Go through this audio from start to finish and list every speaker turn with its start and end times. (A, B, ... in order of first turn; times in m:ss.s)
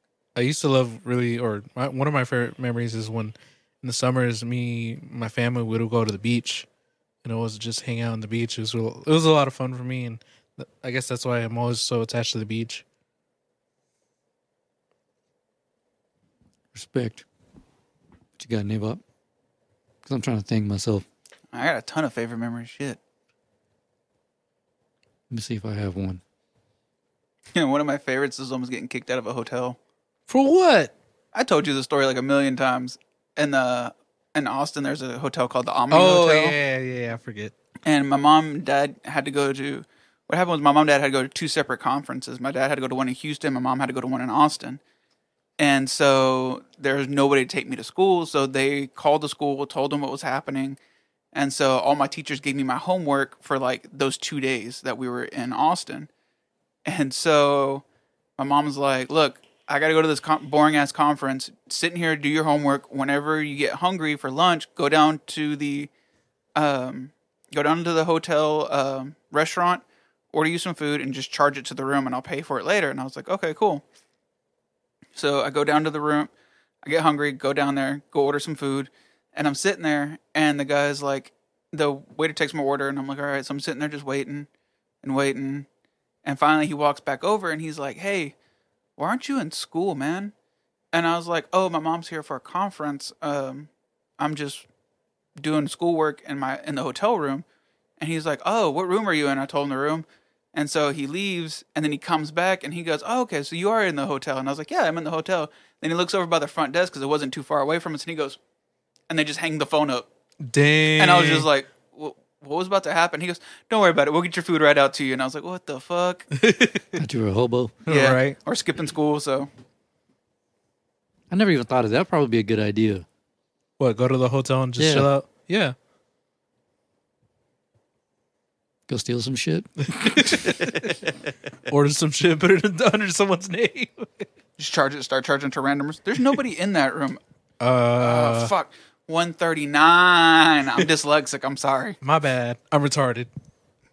0:00.4-0:06.7 A
0:07.2-0:12.8 A
0:16.7-0:17.2 B
0:18.4-0:19.0 B
0:20.0-0:21.0 B
0:21.5-0:23.0 C
0:25.3-0:26.2 B
0:27.5-0:29.8 C
0:30.3-0:30.9 A
0:31.3-0:36.6 C
0:35.9-0:37.5 A
0:37.8-0:44.8 C
0:45.6-0:50.8 C
0:51.3-0:56.1 C
0:56.8-0:57.8 C
0:58.4-1:05.9 C
1:06.5-1:13.8 C
1:15.1-1:16.3 C
1:16.8-1:24.5 C
1:25.0-1:25.7 C
1:26.2-1:28.3 C
1:29.0-1:30.3 C
1:30.9-1:34.7 C
1:35.4-1:37.4 C
1:38.0-1:48.4 C
1:49.1-1:50.1 C
1:50.5-1:51.5 A
1:51.0-1:56.2 C
1:56.3-1:57.0 A
1:57.0-1:57.7 B
1:57.9-1:58.4 A
1:57.9-1:59.5 C
2:01.3-2:03.0 B
2:03.8-2:05.7 A
2:04.8-2:05.1 B
2:08.9-2:10.4 B
2:10.0-2:10.9 A
2:11.7-2:14.2 A
2:14.6-2:17.2 C
2:17.6-2:18.5 A
2:18.0-2:22.0 C
2:22.0-2:23.3 A